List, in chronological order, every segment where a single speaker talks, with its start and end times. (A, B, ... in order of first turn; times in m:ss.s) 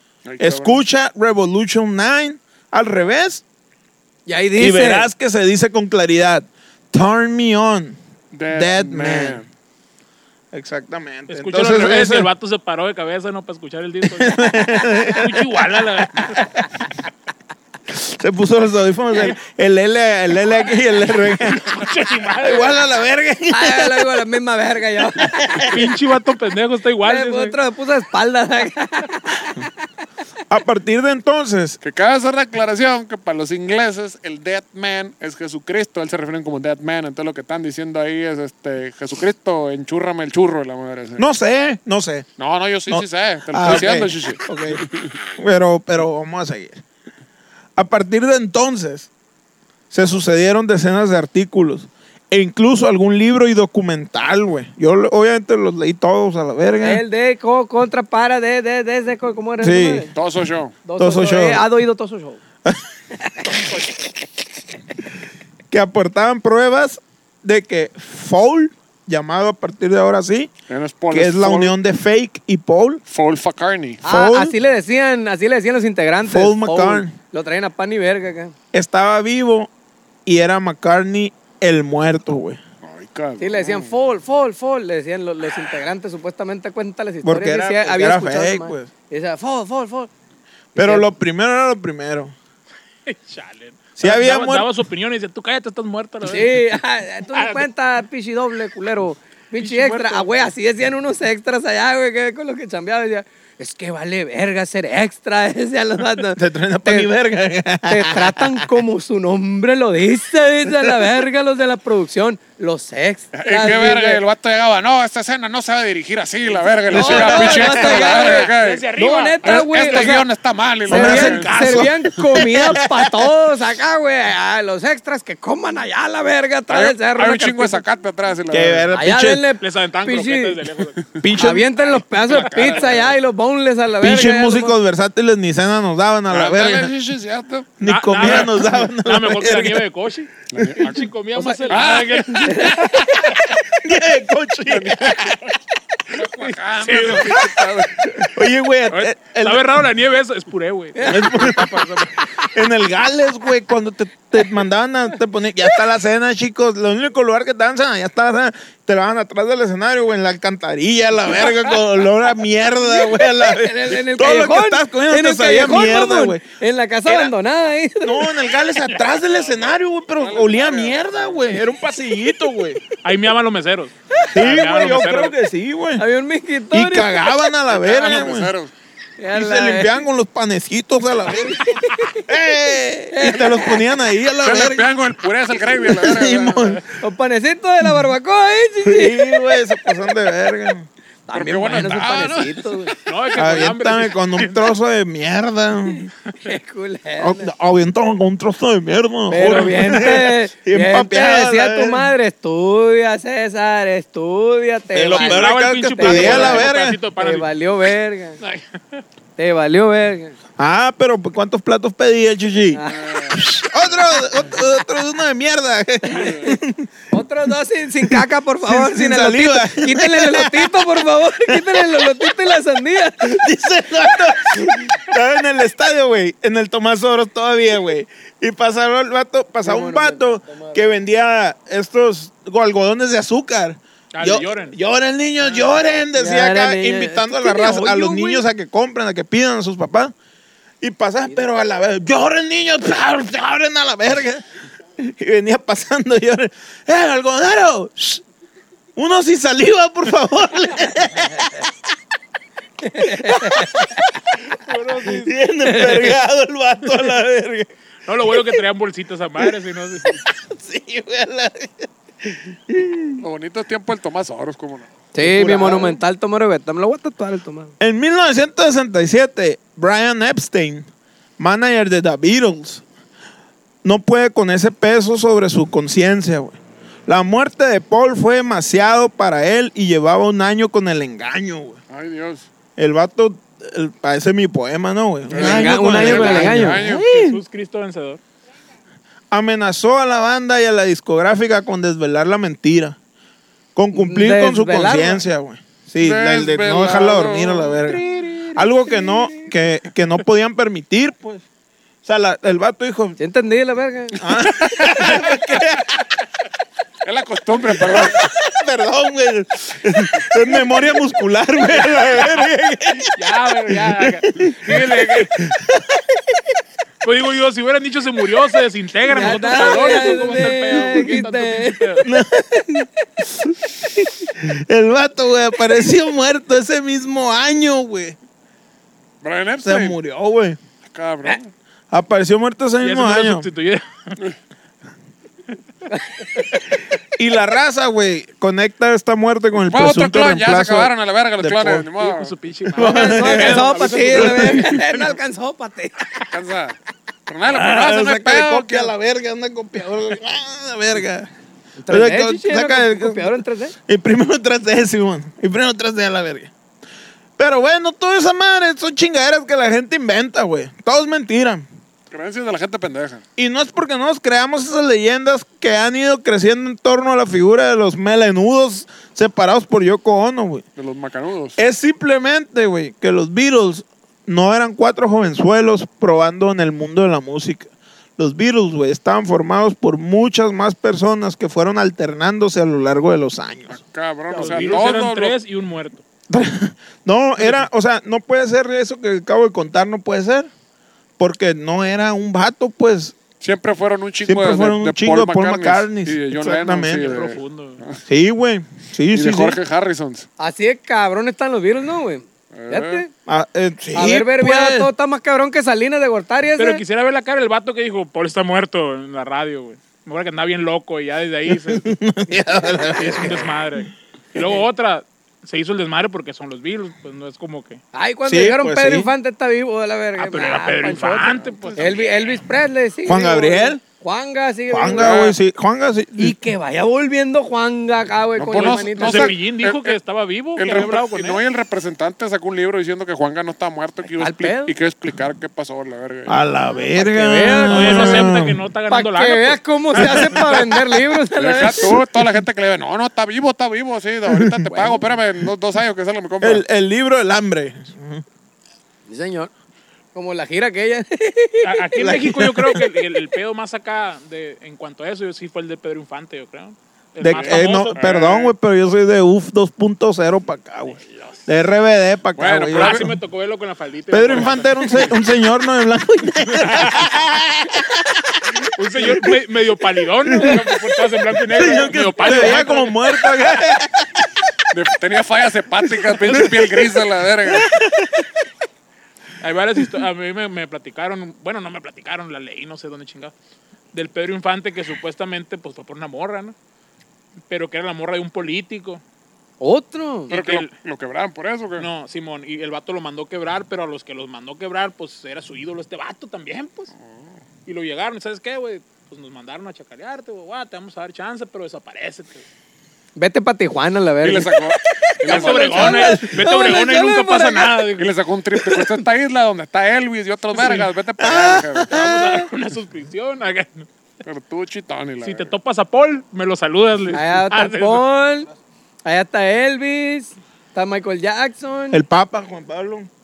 0:00.2-0:00.8 A
0:00.4-0:03.4 B
0:04.2-0:05.1 C
0:04.6-0:08.0 B
0:08.3-0:09.4 A
0:08.5-0:09.4 B
0:10.5-0:12.3 B
0:11.3-0:16.4 D
0:14.1-0:16.3 B
0:17.9-0:21.8 B
0:21.5-0:22.8 D
0:22.4-0:24.1 B
0:23.5-0:25.8 C
0:25.2-0:25.8 B
0:25.7-0:27.6 D
0:27.0-0:29.7 C
0:30.5-0:31.8 B
0:31.8-0:41.2 A
0:41.2-0:42.2 B
0:42.4-0:45.1 A
0:42.9-0:46.8 B
0:47.8-0:49.1 B
0:49.9-0:57.0 B
0:56.8-1:00.1 C
0:59.6-1:00.0 B
1:00.1-1:00.8 A
1:00.8-1:02.4 C
1:01.0-1:01.6 B
1:03.3-1:03.6 C
1:05.7-1:10.5 B
1:10.7-1:11.8 A
1:11.1-1:13.0 B
1:13.1-1:14.0 A
1:14.0-1:14.5 B
1:14.0-1:18.5 C
1:16.2-1:17.2 B
1:18.7-1:19.7 B
1:20.2-1:22.6 B
1:22.8-1:23.9 A
1:23.4-1:30.1 C
1:27.2-1:28.9 B
1:30.7-1:31.1 C
1:30.8-1:32.3 B
1:33.0-1:36.6 D
1:34.0-1:34.7 B
1:36.2-1:47.1 C
1:37.3-1:37.7 D
1:39.6-1:40.3 D
1:46.4-1:48.6 B
1:47.9-1:54.2 C
1:50.7-1:51.0 B
1:53.3-1:58.8 A
1:56.9-2:00.1 D
1:56.9-2:00.2 C
1:59.4-2:01.8 A
2:00.9-2:03.3 B
2:00.9-2:07.8 C
2:01.0-2:01.3 D
2:06.7-2:08.9 A
2:08.5-2:09.4 B
2:08.9-2:10.6 C
2:09.6-2:11.0 D
2:11.2-2:11.7 B
2:11.4-2:14.8 C
2:12.3-2:13.1 A
2:12.3-2:13.0 D
2:14.0-2:16.9 B
2:16.3-2:18.5 A
2:17.8-2:19.8 B
2:17.8-2:23.0 D
2:20.5-2:21.1 A
2:21.4-2:21.7 C
2:21.7-2:22.7 A
2:22.5-2:23.0 C
2:23.3-2:25.5 B
2:24.7-2:25.4 A
2:26.1-2:28.1 A
2:26.8-2:27.4 D
2:28.1-2:29.8 B
2:28.9-2:32.3 D
2:30.9-2:31.5 C
2:31.0-2:46.4 B
2:42.8-2:48.3 C
2:48.0-2:52.8 B
2:49.3-2:51.5 A
2:53.0-2:55.3 D
2:54.3-2:56.0 B
2:56.0-2:57.2 C
2:56.7-2:58.5 B
2:57.7-2:58.7 A
2:59.2-3:00.0 C
2:59.3-3:01.6 B
3:01.3-3:02.2 C
3:02.2-3:04.9 B
3:03.1-3:03.8 C
3:04.4-3:06.8 A
3:05.7-3:06.8 B
3:07.0-3:09.8 C
3:07.8-3:08.1 B
3:08.8-3:10.9 B
3:11.3-3:12.9 C
3:11.3-3:12.7 A
3:13.0-3:14.7 D
3:13.3-3:16.1 B
3:16.4-3:17.5 C
3:17.2-3:22.1 B
3:19.3-3:28.4 C
3:24.9-3:27.0 B
3:25.1-3:27.5 D
3:28.4-3:29.0 D
3:29.4-3:30.4 C
3:30.6-3:36.9 B
3:32.7-3:33.1 C
3:33.0-3:33.4 A
3:36.2-3:36.5 C
3:37.1-3:43.4 C
3:38.0-3:42.0 B
3:43.2-4:00.1 B
3:49.6-3:50.9 C
3:54.1-3:54.8 D
3:56.1-3:58.4 C
4:00.8-4:04.4 B
4:05.0-4:08.2 B
4:09.0-4:11.7 B
4:12.8-4:13.9 C
4:13.0-4:14.0 B
4:14.6-4:15.3 D
4:15.0-4:17.7 B
4:15.6-4:16.1 C
4:18.0-4:20.2 D
4:18.3-4:18.5 B
4:20.1-4:23.2 B
4:23.2-4:24.9 A
4:25.1-4:27.7 C
4:25.2-4:26.0 B
4:27.8-4:30.9 B
4:31.4-4:32.8 B
4:33.8-4:41.8 B
4:41.9-4:42.5 A
4:42.8-4:47.4 B
4:45.3-4:47.0 A
4:45.3-4:46.9 C
4:46.2-4:48.2 D
4:49.3-4:53.0 B
4:53.8-4:58.0 B
4:53.9-4:55.2 C
4:56.0-4:57.8 A
4:58.1-4:59.3 C
4:58.5-5:01.4 B
5:02.0-5:03.2 B
5:03.2-5:04.2 C
5:04.2-5:06.0 B
5:07.0-5:08.2 A
5:07.7-5:16.4 B
5:13.1-5:15.4 D
5:17.0-5:22.1 D
5:19.1-5:22.0 C
5:19.7-5:20.1 B
5:22.0-5:28.2 B
5:29.2-5:30.0 A
5:29.6-5:30.6 B
5:30.9-5:31.5 A
5:31.9-5:33.5 B
5:32.8-5:34.2 D
5:35.9-5:36.6 C
5:37.2-5:41.9 B
5:39.6-5:42.3 A
5:42.0-5:45.0 D
5:42.7-5:44.8 B
5:42.8-5:46.2 C
5:46.3-5:48.9 A
5:47.5-5:51.3 B
5:51.8-5:53.7 C
5:51.9-5:53.3 B
5:53.9-5:56.5 B
5:57.4-6:01.6 B
6:02.1-6:03.2 A
6:03.4-6:10.6 B
6:10.8-6:11.6 A
6:11.6-6:23.8 B
6:23.7-6:25.4 A
6:24.3-6:26.0 D
6:26.3-6:30.5 B
6:27.4-6:27.6 D
6:31.2-6:33.1 B
6:33.4-6:38.0 A
6:34.2-6:37.2 B
6:36.8-6:37.8 D
6:38.1-6:39.6 B
6:39.1-6:40.3 A
6:40.4-6:43.1 C
6:42.5-6:43.0 A
6:43.2-6:44.9 B
6:43.9-6:46.8 C
6:46.6-6:51.9 D
6:51.5-6:53.5 B
6:53.0-6:57.8 D
6:57.9-7:05.2 C
6:58.2-6:59.1 B
7:00.2-7:02.1 D
7:01.4-7:02.3 A
7:03.0-7:03.8 B
7:04.7-7:06.4 B
7:04.9-7:05.4 A
7:06.2-7:09.3 C
7:08.4-7:10.0 A
7:08.5-7:11.4 D
7:10.5-7:16.4 A
7:14.2-7:14.7 C
7:16.3-7:18.6 B
7:16.9-7:18.4 C
7:17.6-7:20.5 D
7:18.9-7:22.0 C
7:20.0-7:20.6 B
7:21.4-7:26.6 A
7:24.3-7:24.7 B
7:26.4-7:28.2 B
7:29.1-7:29.5 C
7:30.1-7:32.3 C
7:31.6-7:38.0 D
7:32.0-7:32.9 B
7:37.2-7:43.1 B
7:37.3-7:38.5 A
7:41.1-7:41.3 D
7:42.4-7:43.1 A
7:42.7-7:45.1 D
7:44.1-7:49.3 B
7:46.6-7:47.0 D
7:48.7-7:53.0 D
7:50.2-7:50.8 B
7:51.4-7:54.3 B
7:54.7-7:57.7 A
7:56.1-7:56.7 B
7:57.4-7:58.3 B
7:59.4-8:03.3 D
8:03.9-8:06.5 D
8:07.5-8:09.0 D
8:09.6-8:10.3 C
8:10.3-8:10.7 D
8:10.3-8:11.9 A
8:11.8-8:16.9 D
8:17.6-8:22.4 D
8:23.2-8:27.8 C
8:24.2-8:26.0 A
8:25.2-8:28.1 D
8:25.8-8:26.3 B
8:28.0-8:31.9 A
8:28.5-8:28.9 C
8:31.2-8:32.5 B
8:31.9-8:33.9 D
8:34.2-8:35.5 A
8:35.2-8:38.0 D
8:37.1-8:38.5 C
8:39.0-8:42.0 C
8:41.9-8:43.1 B